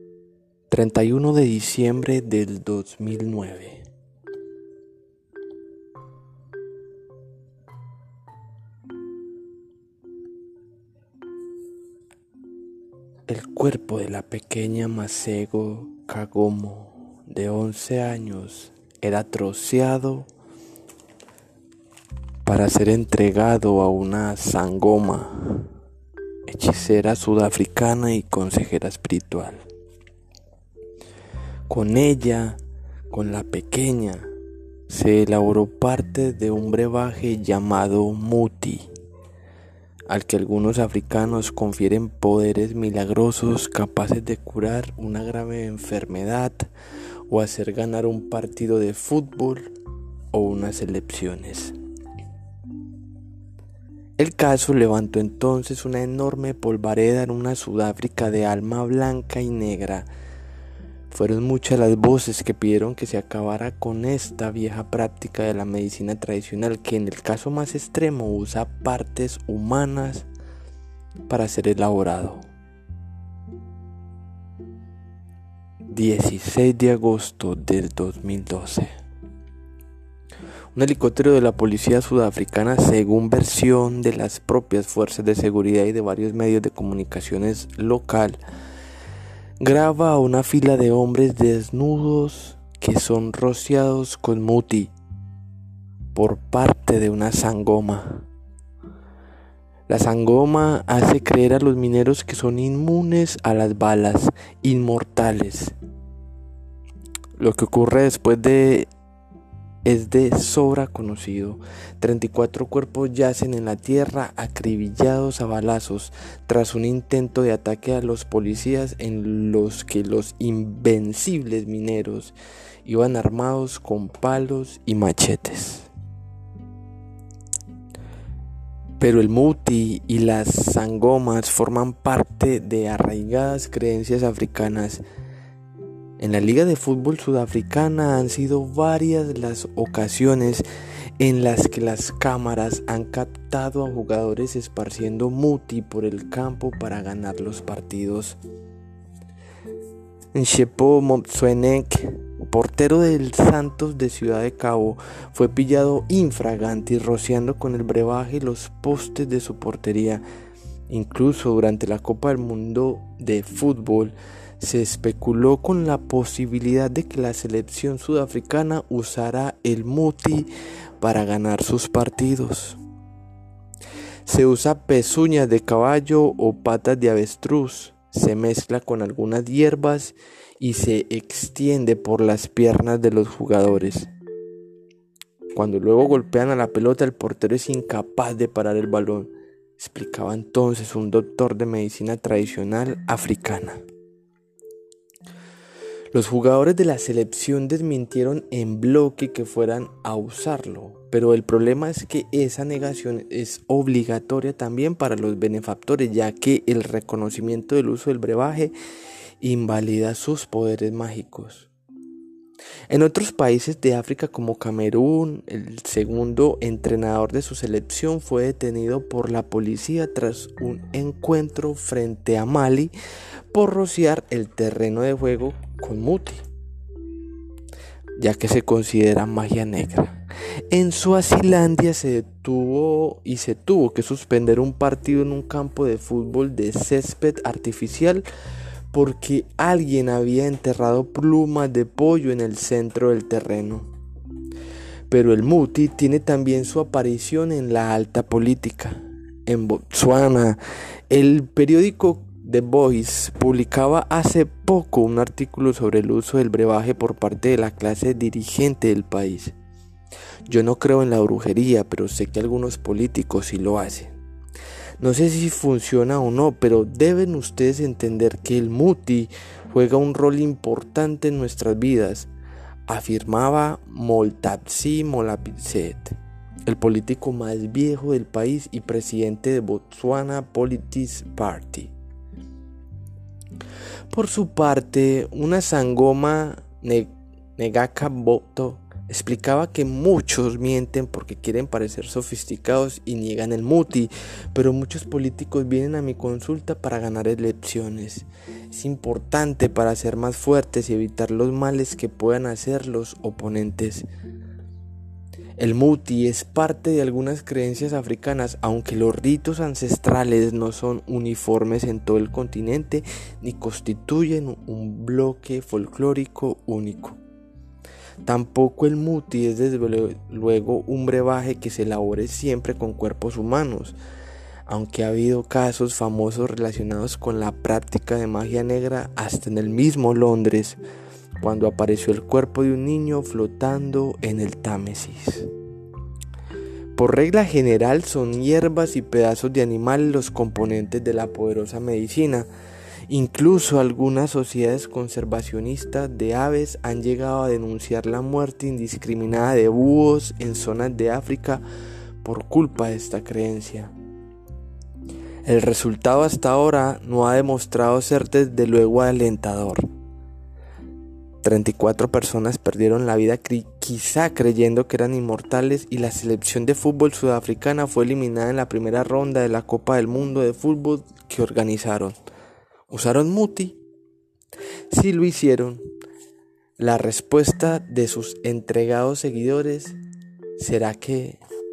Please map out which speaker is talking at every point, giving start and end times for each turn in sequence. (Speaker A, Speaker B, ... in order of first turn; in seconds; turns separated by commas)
Speaker A: 0.7-3.8, Speaker A: 13.3-20.3, Speaker A: 22.4-25.7, Speaker A: 26.5-29.6, Speaker A: 31.7-32.6, Speaker A: 33.1-34.3, Speaker A: 34.9-38.9, Speaker A: 40.1-46.6, Speaker A: 47.3-49.7, Speaker A: 50.3-51.7, Speaker A: 54.2-60.1, Speaker A: 61.1-70.3, Speaker A: 71.3-72.5, Speaker A: 75.9-78.9, Speaker A: 80.7-88.4, Speaker A: 89.6-94.9, Speaker A: 96.1-98.3, Speaker A: 99.9-105.7, Speaker A: 107.4-108.9, Speaker A: 109.8-125.9, Speaker A: 129.0-135.0, Speaker A: 136.2-140.7, Speaker A: 141.2-148.4, Speaker A: 150.3-160.2, Speaker A: 160.9-170.5, Speaker A: 171.0-172.8, Speaker A: 174.2-184.1, Speaker A: 185.5-193.8, Speaker A: 196.1-208.7, Speaker A: 209.4-211.7, Speaker A: 212.9-222.9, Speaker A: 223.5-226.4, Speaker A: 228.2-238.2, Speaker A: 238.9-243.9, Speaker A: 245.1-259.5, Speaker A: 260.5-264.1, Speaker A: 265.0-272.3, Speaker A: 272.9-276.1, Speaker A: 276.6-281.9, Speaker A: 284.1-304.1, Speaker A: 305.6-317.2, Speaker A: 318.2-323.9, Speaker A: 324.7-330.8, Speaker A: 331.4-335.5, Speaker A: 336.9-342.5, Speaker A: 343.1-351.6, Speaker A: 352.2-353.9, Speaker A: 355.4-359.9, Speaker A: 361.4-372.1, Speaker A: 372.9-373.8, Speaker A: 374.9-375.8, Speaker A: 376.8-380.0, Speaker A: 380.6-381.4